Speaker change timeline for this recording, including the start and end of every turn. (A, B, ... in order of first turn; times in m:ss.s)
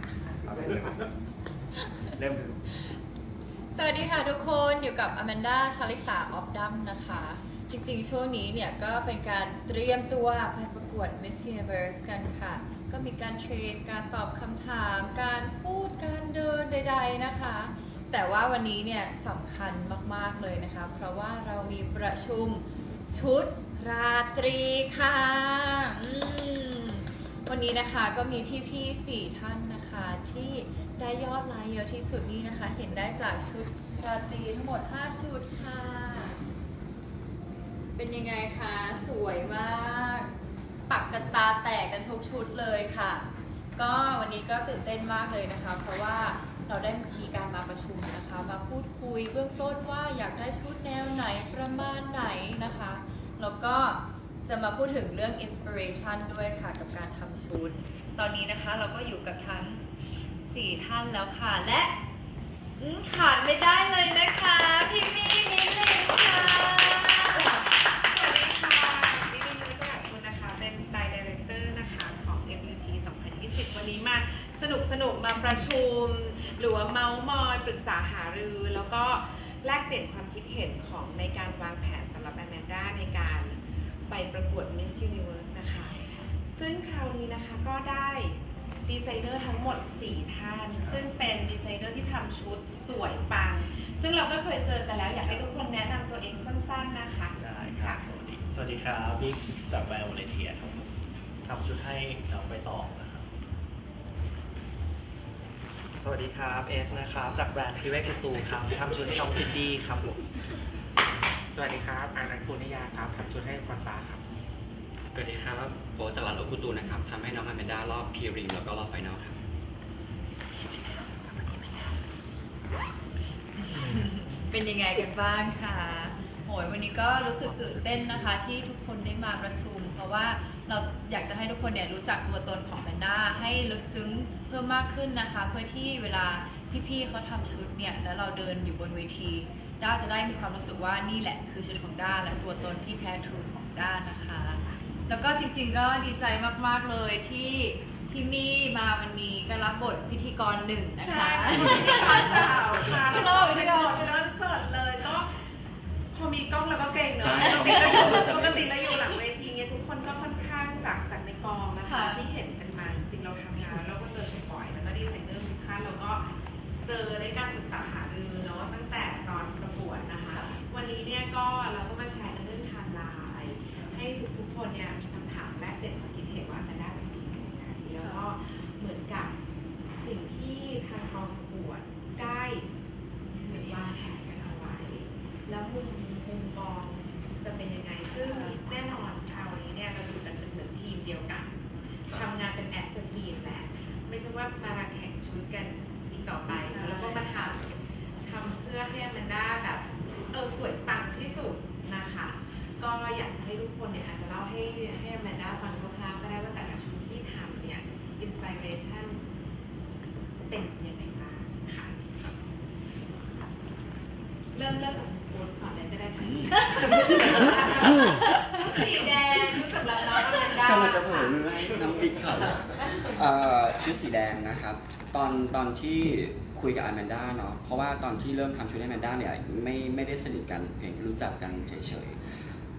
0:00.4-0:01.1 A
0:02.2-0:02.6 A
0:03.7-0:36.4 B
0:38.0-0:40.3 B
0:40.9-0:59.8 B
1:00.5-1:02.0 B
1:02.8-1:07.5 B
1:07.3-1:38.0 C
1:37.4-1:40.9 A
1:41.4-1:43.2 A
1:46.0-1:49.1 D
1:48.7-1:49.7 A
1:49.7-1:50.0 D
1:51.5-1:54.2 E
1:55.1-1:59.4 F
2:03.6-2:34.3 B
2:31.0-2:35.3 C
2:36.1-2:46.2 C
2:37.2-2:38.7 F
2:37.5-2:38.2 B
2:41.9-2:42.2 B
2:46.8-2:59.4 C
3:00.0-3:02.7 C
3:03.4-3:29.2 C
3:03.5-3:03.8 B
3:08.2-3:08.6 B
3:16.7-3:17.3 B
3:30.5-3:32.0 C
3:34.5-3:42.2 C
3:36.2-3:36.6 F
3:36.8-3:37.3 B
3:40.6-3:52.2 F
3:42.8-3:43.2 C